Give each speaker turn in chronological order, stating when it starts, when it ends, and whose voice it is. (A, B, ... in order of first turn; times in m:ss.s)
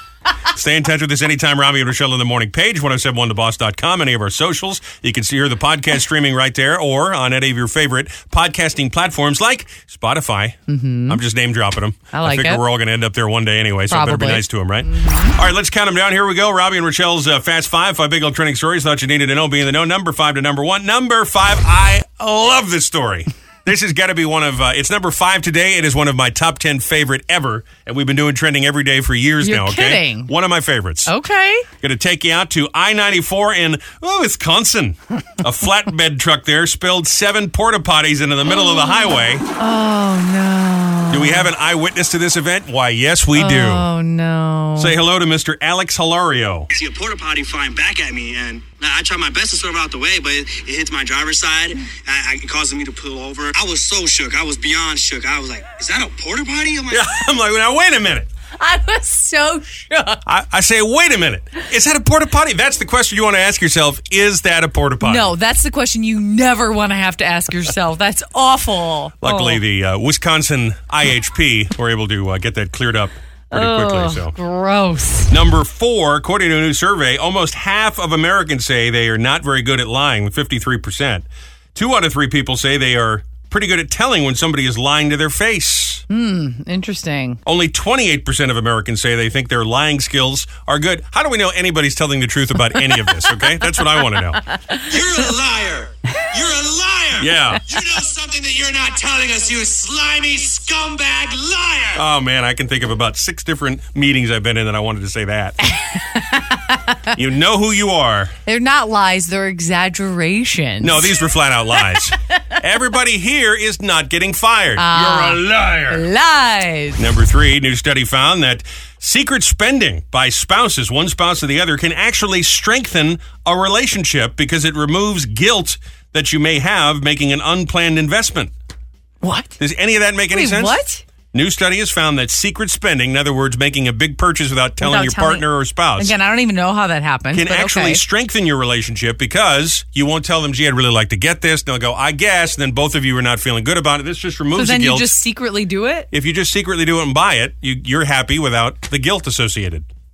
0:00.5-0:31.1 A
0:10.7-0:11.2 B
0:12.1-0:12.6 B
0:13.9-0:15.4 B
0:29.4-0:30.3 B
0:31.0-0:31.7 B
0:31.8-0:39.4 A
0:38.4-0:41.5 B
0:41.1-0:43.8 A
0:43.3-0:45.0 B
0:44.8-0:46.7 A
0:46.7-0:57.0 C
0:56.9-0:58.3 A
0:58.6-1:00.2 B
1:00.2-1:05.3 A
1:05.0-1:09.6 B
1:09.2-1:14.3 A
1:13.5-1:15.3 B
1:15.3-1:26.0 A
1:26.1-1:27.4 B
1:27.4-1:34.4 A
1:32.7-1:35.3 B
1:34.8-1:42.0 C
1:37.2-1:37.6 A
1:37.5-1:37.9 B
1:41.9-1:45.6 A
1:45.6-1:47.2 B
1:47.1-1:48.3 A
1:48.4-1:51.2 B
1:50.8-1:56.0 A
1:51.7-1:52.0 B
1:54.8-1:57.0 B
1:57.0-2:08.5 A
2:09.2-2:09.5 B
2:09.6-2:10.8 A
2:10.3-2:11.0 B
2:11.3-2:16.1 A
2:14.8-2:18.0 B
2:17.3-2:25.1 A
2:24.5-2:26.1 B
2:26.1-2:29.9 A